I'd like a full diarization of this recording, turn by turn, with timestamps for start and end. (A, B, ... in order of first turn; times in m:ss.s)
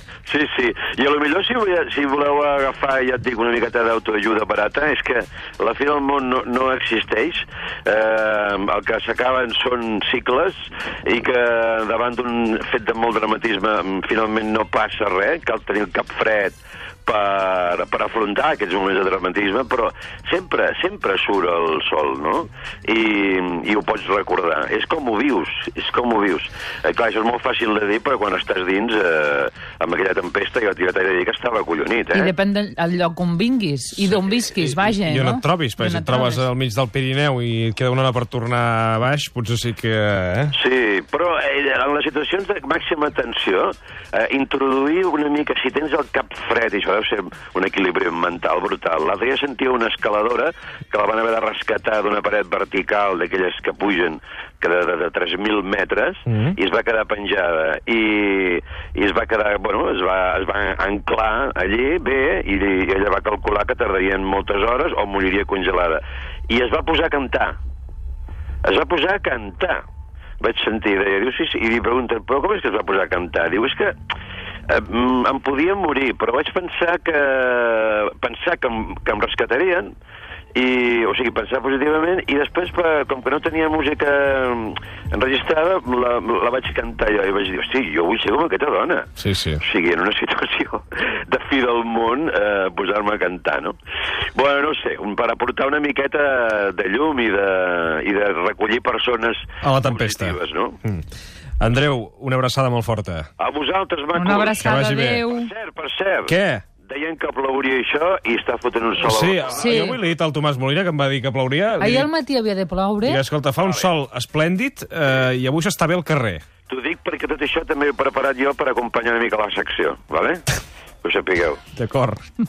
0:00.2-0:32.3 A
0:32.1-0:36.5 B
0:34.0-0:40.5 C
0:40.5-1:07.6 A
0:56.3-0:56.6 C
1:08.6-1:09.8 A
1:10.4-1:13.9 A
1:14.7-1:19.9 A
1:20.5-1:29.1 A
1:29.2-1:29.6 C
1:29.6-1:33.8 A
1:34.4-1:40.8 A
1:39.6-1:41.0 C
1:41.6-1:43.3 C
1:43.4-1:44.7 A
1:44.1-1:45.5 B
1:44.6-1:45.2 C
1:45.2-1:49.6 A
1:46.3-1:46.6 C
1:49.0-1:52.1 C
1:49.5-1:50.0 B
1:51.8-1:53.2 B
1:53.0-1:56.4 C
1:53.6-1:53.9 A
1:56.7-2:00.4 A
2:01.0-2:01.6 A
2:01.8-2:02.2 C